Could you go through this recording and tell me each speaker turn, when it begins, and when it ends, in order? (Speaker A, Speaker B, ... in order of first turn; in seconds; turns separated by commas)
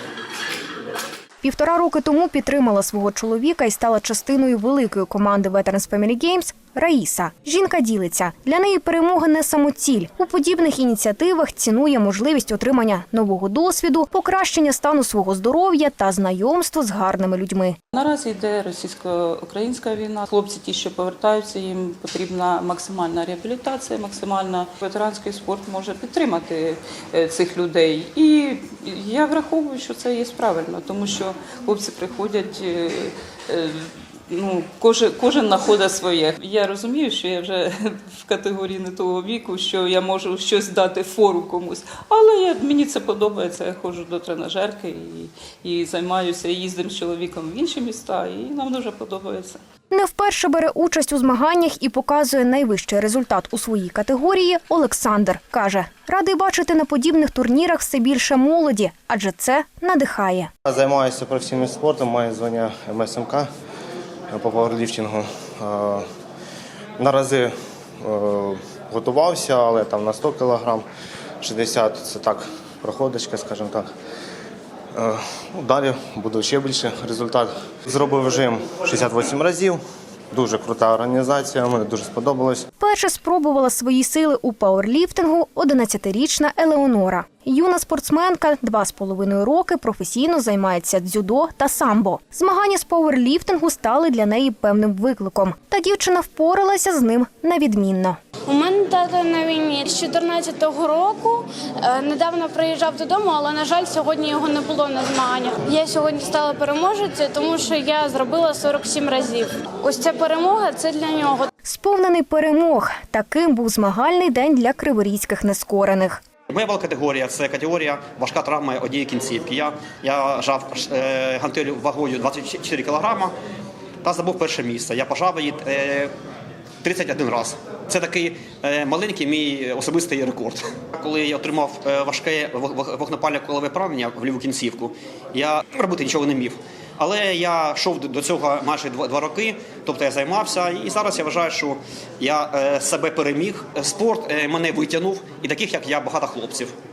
Speaker A: 1.4-17.8, Speaker B: 17.9-49.6, Speaker A: 49.9-60.5, Speaker C: 60.7-63.5, Speaker C: 64.4-66.0, Speaker C: 67.0-67.5, Speaker C: 68.1-70.8, Speaker C: 71.4-73.9, Speaker C: 75.0-79.8, Speaker C: 80.3-82.7, Speaker A: 82.8-98.2, Speaker D: 98.5-111.5, Speaker A: 111.7-116.2, Speaker E: 116.5-123.3, Speaker E: 124.0-126.1, Speaker E: 126.8-146.7